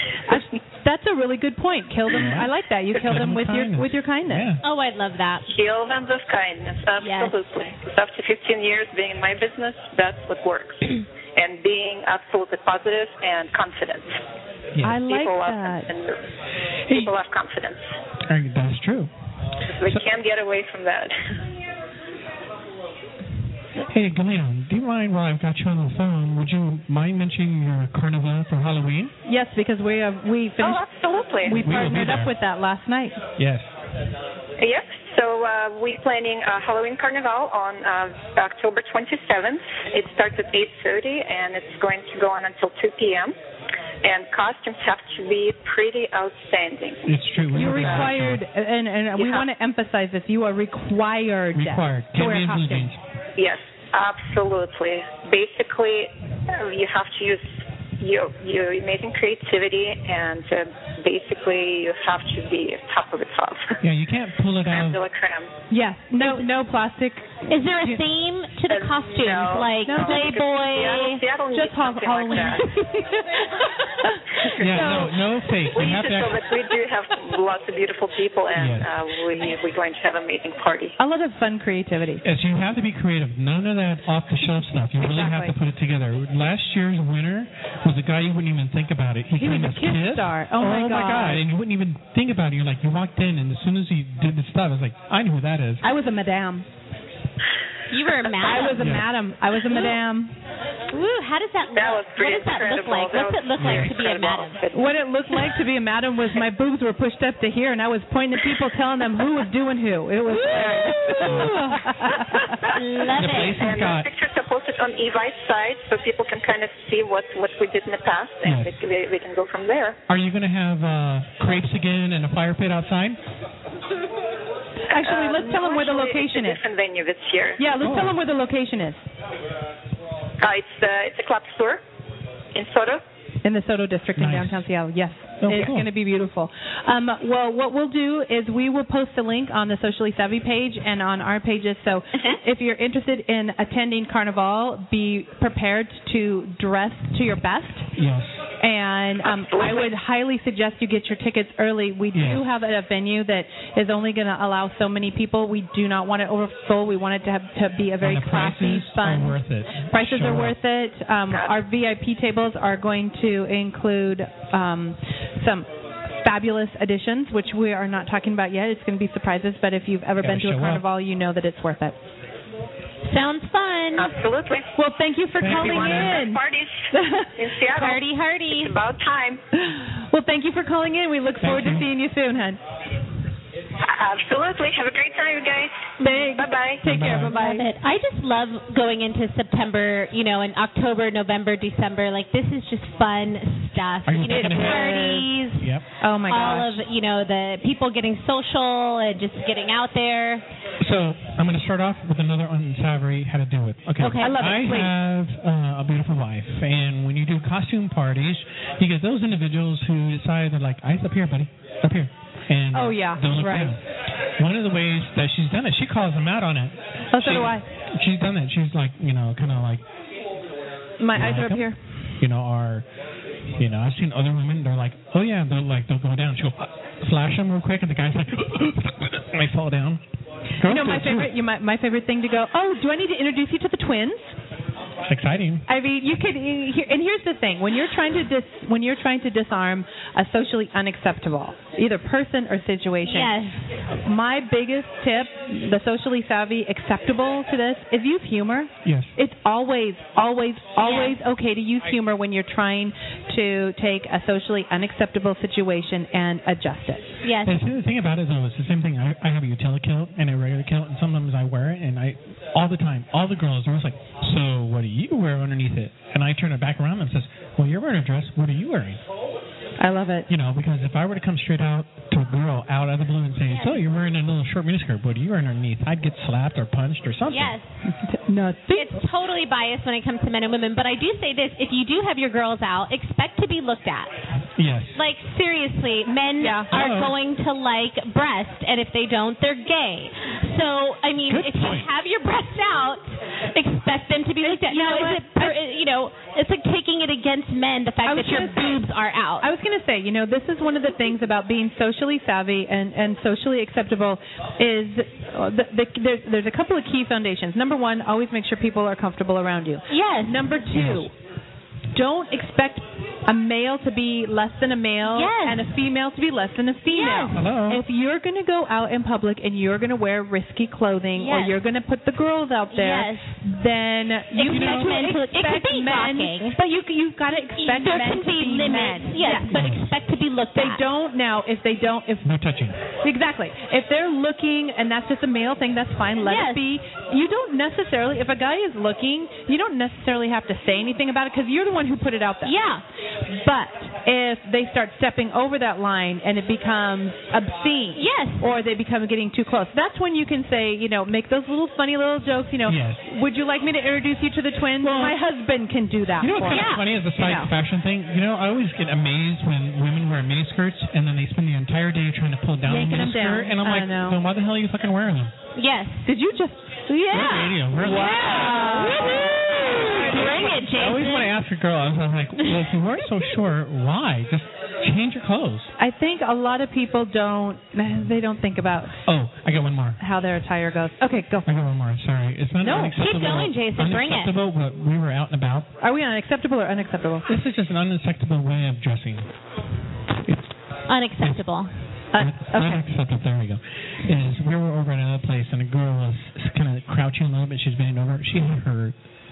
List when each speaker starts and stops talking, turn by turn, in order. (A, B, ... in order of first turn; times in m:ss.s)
0:00.3-0:04.5 A
0:02.1-0:04.6 B
0:04.6-0:05.5 C
0:05.5-0:14.2 D
0:07.0-0:07.4 C
0:14.8-0:15.0 B
0:14.8-0:15.9 A
0:15.0-0:16.2 D
0:16.9-0:17.8 D
0:18.2-0:19.1 B
0:19.7-0:21.4 D
0:23.8-0:29.1 B
0:29.3-0:30.8 A
0:30.6-0:31.6 D
0:31.4-0:33.2 A
0:31.5-0:32.4 B
0:33.4-0:33.7 B
0:34.6-0:43.4 D
0:44.0-0:47.2 D
0:47.1-0:48.4 B
0:47.5-0:52.9 A
0:47.7-0:48.1 D
0:49.2-0:49.4 D
0:51.5-0:53.0 B
0:53.4-1:03.8 D
1:03.8-1:05.0 B
1:04.7-1:05.5 D
1:05.7-1:08.0 A
1:06.2-1:06.5 C
1:07.5-1:11.2 C
1:08.7-1:12.7 D
1:09.8-1:10.4 A
1:11.5-1:12.8 A
1:12.3-1:13.9 C
1:13.9-1:15.2 A
1:14.5-1:15.1 D
1:14.6-1:16.5 B
1:15.7-1:21.0 D
1:18.5-1:18.9 B
1:21.0-1:22.2 A
1:22.2-1:35.8 B
1:25.0-1:25.5 A
1:29.4-1:31.4 A
1:35.8-1:36.7 A
1:37.9-1:39.0 C
1:38.4-1:40.4 A
1:38.8-1:39.1 B
1:39.7-1:40.0 C
1:40.9-1:44.6 C
1:41.7-1:44.9 D
1:43.6-1:43.9 B
1:44.7-1:52.6 A
1:50.3-1:51.8 C
1:50.6-1:51.0 D
1:51.2-1:51.6 B
1:52.6-1:53.6 C
1:53.1-1:54.1 B
1:53.4-2:00.0 D
1:58.4-1:58.7 B
2:00.1-2:03.2 B
2:04.9-2:06.6 A
2:04.9-2:07.7 D
2:07.6-2:09.0 A
2:07.8-2:08.2 B
2:10.4-2:11.8 D
2:12.5-2:13.0 D
2:13.4-2:27.9 A
2:14.2-2:14.7 B
2:15.4-2:15.9 B
2:28.0-2:28.4 B
2:28.6-2:52.0 A
2:29.3-2:29.9 D
2:32.1-2:32.5 B
2:38.0-2:40.6 B
2:50.2-2:50.8 B
2:53.1-2:54.2 C
2:54.0-2:54.7 D
2:54.8-2:56.4 A
2:55.4-2:56.2 B
2:55.5-2:59.4 D
2:56.9-2:57.3 A
2:57.7-2:58.8 C
2:59.6-3:02.6 A
3:01.4-3:01.9 B
3:03.8-3:06.8 D
3:06.0-3:07.7 A
3:06.8-3:07.4 B
3:07.0-3:15.7 C
3:14.1-3:15.0 B
3:14.2-3:15.3 A
3:15.6-3:15.8 B
3:16.0-3:16.8 A
3:16.3-3:20.4 C
3:20.8-3:39.8 B
3:24.0-3:24.4 C
3:24.2-3:24.9 A
3:32.7-3:33.8 A
3:37.1-3:37.6 A
3:41.0-3:41.8 A
3:41.1-3:41.7 B
3:42.2-3:42.9 B
3:43.5-3:50.0 B
3:50.6-3:51.3 B
3:50.6-3:54.4 A
3:55.0-3:55.6 B
3:55.7-4:03.4 A
4:03.0-4:03.6 C
4:03.9-4:17.2 A
4:08.8-4:09.1 B
4:10.8-4:11.2 C
4:17.2-4:17.6 C
4:17.4-4:29.0 B
4:29.8-4:30.3 A
4:30.3-4:37.6 B
4:33.5-4:33.8 C
4:37.3-4:37.7 C
4:37.9-4:39.0 A
4:38.7-4:44.3 C
4:44.6-4:45.0 B
4:45.0-4:59.5 C
4:46.4-4:46.7 A
4:46.7-4:47.2 B
4:51.3-4:51.9 B
4:54.4-4:55.6 A
4:58.0-4:58.8 A
4:59.4-5:11.1 A
5:09.9-5:10.5 C
5:10.7-5:11.1 B
5:11.9-5:29.6 A
5:15.1-5:15.7 C
5:16.9-5:17.4 C
5:17.3-5:17.8 B
5:21.2-5:21.6 C
5:22.7-5:23.4 C
5:24.4-5:26.6 C
5:24.5-5:25.0 B
5:27.6-5:30.8 C
5:29.5-5:29.9 B
5:30.6-5:32.3 A
5:32.2-5:32.8 B
5:33.0-5:42.6 A
5:36.2-5:36.6 C
5:42.4-5:42.8 C
5:43.3-5:57.5 A
5:48.0-5:48.4 C
5:52.7-5:53.0 B
5:54.8-5:55.2 B
5:56.2-6:05.3 B
5:56.5-5:56.9 C
6:02.6-6:04.2 A
6:05.6-6:06.1 C
6:06.0-6:10.6 A
6:07.1-6:11.3 C
6:07.1-6:08.4 B
6:09.1-6:15.7 B
6:15.8-6:19.0 A
6:19.1-6:20.0 B
6:20.0-6:21.5 A
6:21.5-6:25.7 B
6:22.6-6:23.0 A
6:23.0-6:24.3 C
6:25.8-6:27.3 A
6:27.3-6:29.3 B
6:30.2-6:30.5 B
6:30.9-6:31.7 C
6:31.2-6:31.4 B
6:32.1-6:32.9 A
6:32.2-6:39.0 B